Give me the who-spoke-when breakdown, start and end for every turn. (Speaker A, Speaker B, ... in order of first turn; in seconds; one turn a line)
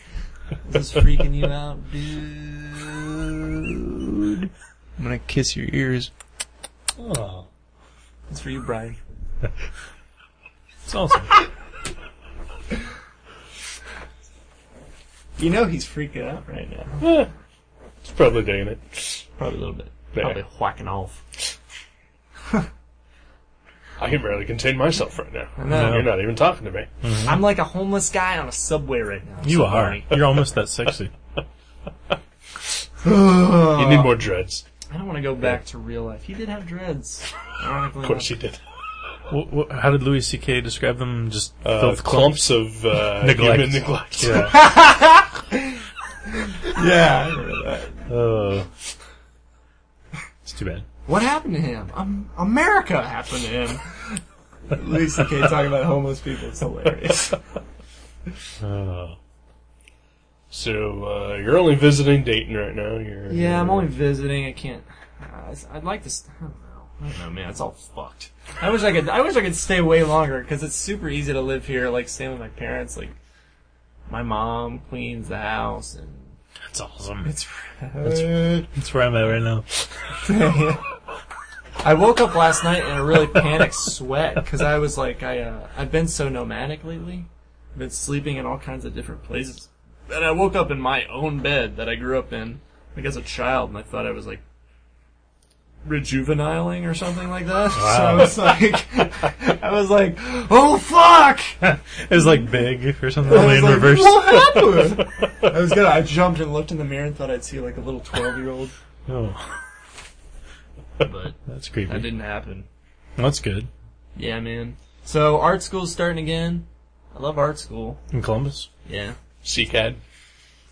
Speaker A: 0.6-6.1
Speaker B: 7.0-7.5
Speaker A: 8.3-9.0
Speaker B: 10.9-11.3
Speaker A: 15.4-17.0
Speaker C: 17.0-17.3
Speaker C: 18.0-19.2
Speaker A: 19.4-21.2
Speaker C: 20.1-20.4
Speaker C: 24.0-26.9
Speaker A: 25.6-26.1
Speaker B: 25.7-26.1
Speaker B: 27.0-27.5
Speaker A: 27.2-30.1
Speaker B: 29.4-31.1
Speaker A: 33.0-34.1
Speaker C: 33.7-34.6
Speaker A: 34.9-38.3
Speaker C: 38.0-38.6
Speaker B: 39.3-42.6
Speaker C: 41.6-44.5
Speaker B: 43.2-44.6
Speaker A: 44.3-48.1
Speaker B: 48.1-48.7
Speaker B: 50.5-50.9
Speaker A: 51.0-57.4
Speaker B: 58.6-59.2
Speaker C: 60.5-63.9
Speaker A: 63.3-73.2
Speaker A: 74.1-76.3
Speaker B: 76.7-77.3
Speaker A: 77.2-78.7
Speaker B: 78.0-79.7
Speaker A: 80.2-80.8
Speaker A: 81.8-94.4
Speaker A: 95.8-101.6
Speaker B: 97.7-98.5
Speaker B: 101.6-104.5
Speaker A: 103.2-108.7
Speaker B: 109.1-109.6
Speaker A: 111.0-111.4
Speaker B: 111.5-112.1
Speaker A: 111.9-112.7
Speaker B: 113.2-113.7
Speaker A: 114.2-118.0
Speaker B: 118.1-118.7
Speaker A: 118.9-119.2
Speaker C: 119.4-120.0